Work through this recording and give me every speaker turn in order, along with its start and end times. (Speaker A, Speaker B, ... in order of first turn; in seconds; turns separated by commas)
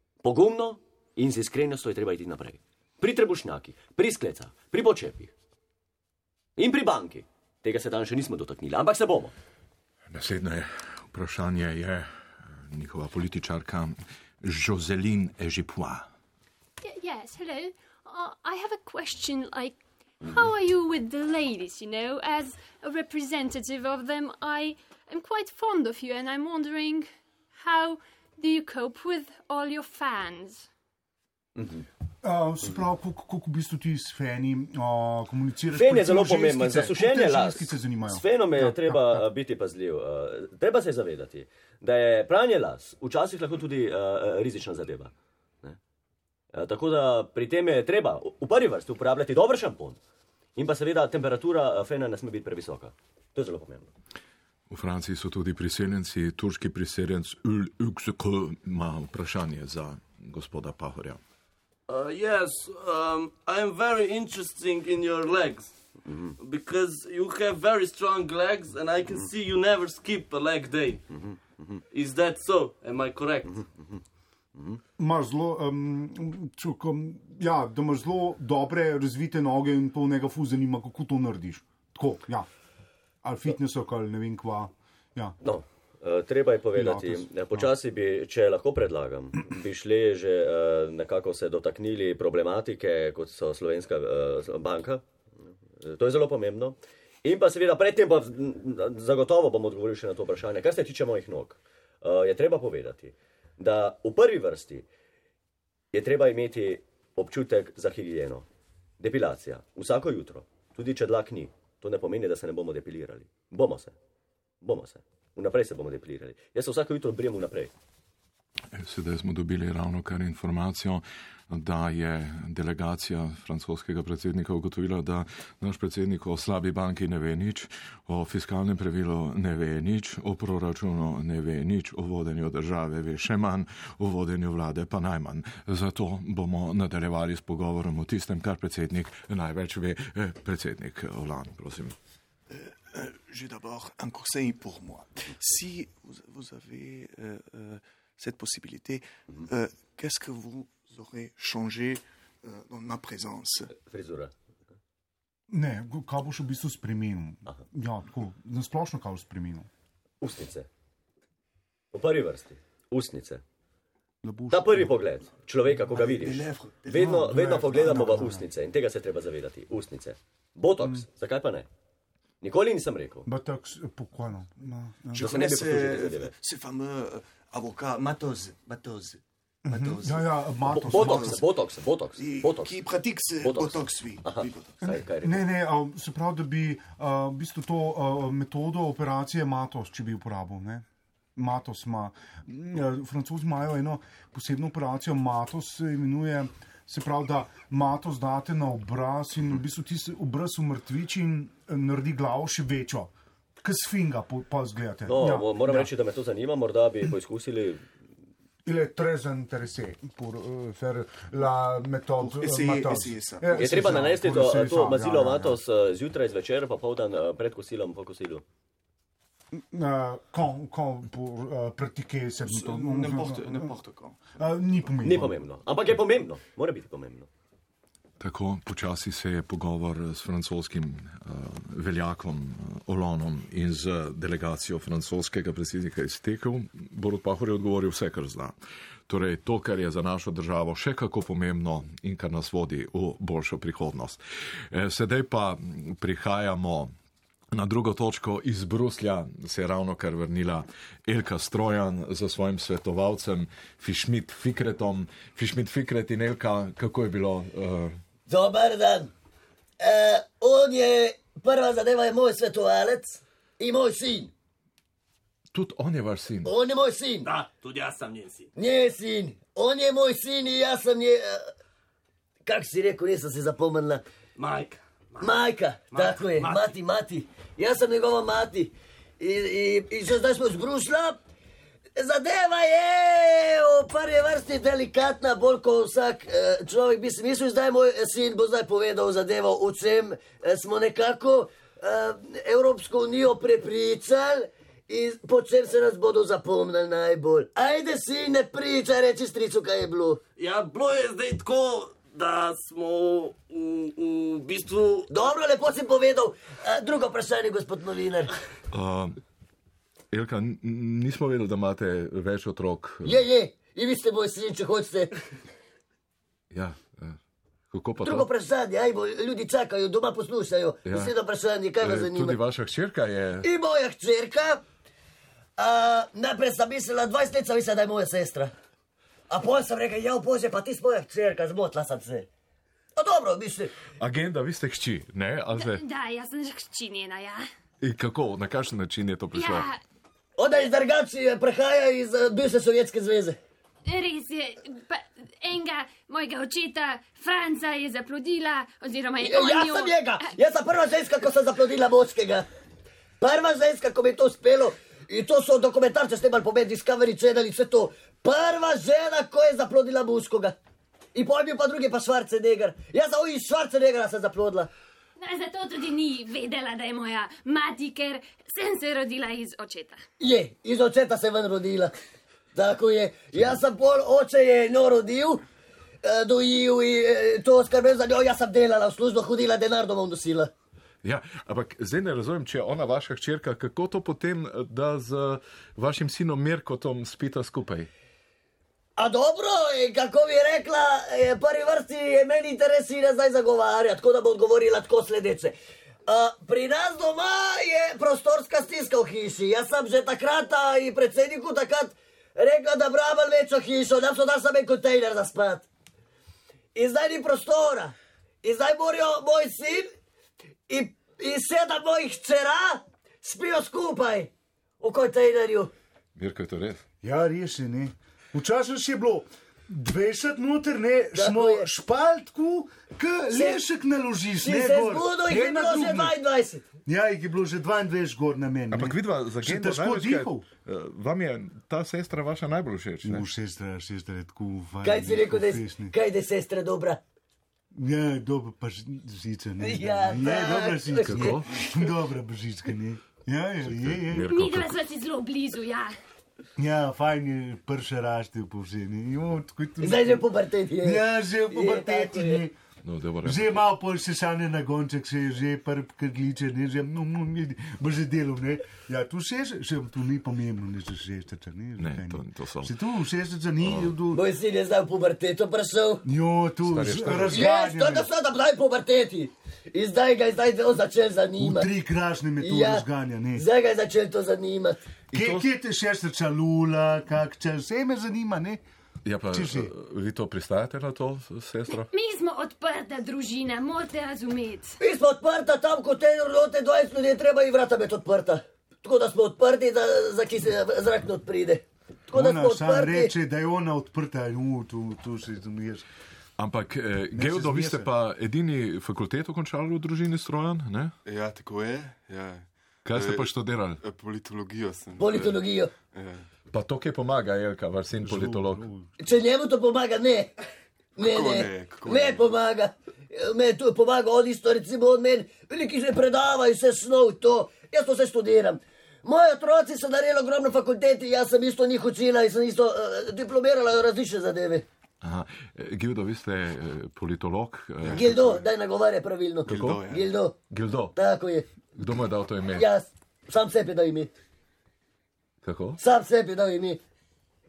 Speaker A: 0.2-5.3, Speaker A: 6.6-9.3, Speaker B: 10.1-12.1, Speaker B: 12.7-16.1, Speaker C: 16.8-30.7, Speaker A: 31.6-31.8, Speaker D: 32.2-39.3, Speaker A: 35.7-45.1, Speaker A: 46.5-50.0, Speaker A: 50.5-53.9, Speaker B: 54.7-61.2, Speaker E: 61.9-65.7, Speaker E: 66.4-71.0, Speaker E: 71.9-73.6, Speaker D: 75.0-82.5, Speaker D: 83.2-85.3, Speaker A: 85.4-95.0, Speaker D: 86.7-87.7, Speaker A: 95.8-104.8, Speaker A: 105.9-108.5, Speaker A: 109.0-113.9, Speaker A: 114.6-117.7, Speaker B: 118.7-141.9, Speaker F: 142.5-153.7, Speaker A: 153.8-154.3, Speaker D: 155.5-159.7, Speaker A: 160.2-160.7, Speaker A: 161.9-163.4, Speaker D: 164.2-165.0, Speaker A: 164.5-171.7, Speaker F: 165.7-168.4, Speaker D: 166.9-168.4, Speaker D: 170.8-171.1, Speaker A: 172.4-173.2, Speaker D: 173.2-175.3, Speaker F: 175.1-181.5, Speaker A: 175.1-176.3, Speaker D: 179.6-181.4, Speaker A: 180.7-182.8, Speaker F: 182.1-184.8, Speaker A: 183.4-185.4, Speaker D: 184.8-190.8, Speaker D: 191.3-205.9, Speaker A: 205.1-207.8, Speaker D: 208.6-215.6, Speaker F: 212.2-214.1, Speaker A: 213.5-218.4, Speaker D: 219.5-223.7, Speaker F: 222.4-224.9, Speaker D: 224.4-225.4, Speaker A: 225.0-227.3, Speaker B: 228.2-238.5, Speaker B: 239.1-246.9, Speaker B: 247.5-258.0, Speaker G: 258.3-259.1, Speaker G: 259.8-264.3, Speaker B: 265.5-266.5, Speaker G: 266.4-267.3, Speaker E: 267.2-268.5, Speaker G: 268.6-271.4, Speaker G: 272.4-274.0, Speaker E: 274.4-276.7, Speaker G: 275.2-281.2, Speaker G: 281.9-300.2, Speaker E: 300.4-305.1, Speaker G: 305.1-308.3, Speaker B: 308.7-309.2, Speaker B: 310.1-313.2, Speaker G: 313.0-315.1, Speaker B: 316.5-317.2, Speaker B: 317.7-318.3, Speaker G: 318.0-322.4, Speaker B: 320.8-321.1, Speaker B: 321.8-323.5, Speaker G: 323.4-324.6, Speaker G: 325.6-328.5, Speaker G: 329.3-332.3, Speaker G: 332.9-333.7, Speaker B: 334.0-335.8, Speaker C: 335.5-337.5, Speaker B: 337.8-339.7, Speaker C: 339.3-339.8, Speaker G: 340.4-343.4, Speaker C: 343.9-350.3, Speaker G: 349.2-352.4, Speaker G: 353.2-360.6, Speaker G: 361.1-364.7, Speaker C: 365.2-370.0, Speaker G: 370.2-371.9, Speaker G: 372.5-375.4, Speaker G: 376.0-380.5, Speaker B: 381.0-387.9, Speaker G: 389.0-395.5, Speaker G: 396.1-405.6, Speaker G: 406.7-409.9, Speaker G: 410.7-415.7, Speaker B: 416.1-416.8, Speaker D: 417.0-426.1, Speaker G: 421.1-421.7, Speaker G: 423.3-423.6, Speaker G: 424.4-426.6, Speaker D: 426.9-430.4, Speaker B: 428.7-433.3, Speaker D: 433.0-435.9, Speaker G: 434.8-437.0, Speaker D: 437.7-444.3, Speaker G: 439.6-441.3, Speaker B: 441.0-441.5, Speaker B: 443.6-444.8, Speaker C: 444.2-445.9, Speaker D: 446.6-450.2, Speaker G: 449.8-452.5, Speaker D: 450.8-452.5, Speaker B: 452.8-453.6, Speaker D: 453.2-464.2, Speaker B: 461.8-462.7, Speaker B: 463.6-463.9, Speaker G: 464.1-466.0, Speaker D: 466.0-468.1, Speaker B: 466.6-467.5, Speaker G: 467.3-471.7, Speaker D: 471.4-473.4, Speaker G: 472.4-474.9, Speaker B: 475.1-475.5, Speaker D: 475.1-478.6, Speaker B: 479.0-481.9, Speaker D: 479.3-479.7, Speaker C: 481.8-484.7, Speaker G: 484.8-493.1, Speaker D: 492.1-495.8, Speaker B: 496.4-500.9, Speaker D: 497.1-497.9, Speaker H: 501.1-503.2, Speaker B: 502.8-503.8, Speaker H: 503.8-505.4, Speaker G: 505.0-505.7, Speaker H: 505.9-506.2, Speaker B: 506.5-508.7, Speaker D: 508.0-508.9, Speaker G: 509.0-510.3, Speaker G: 511.0-524.6, Speaker H: 511.0-512.2, Speaker B: 525.0-528.4, Speaker G: 527.9-530.4, Speaker H: 527.9-528.2, Speaker B: 529.5-529.9, Speaker H: 529.5-530.0, Speaker B: 530.5-530.9, Speaker G: 531.0-531.5, Speaker B: 531.8-532.7, Speaker G: 532.5-534.1, Speaker B: 535.4-535.8, Speaker G: 535.8-536.8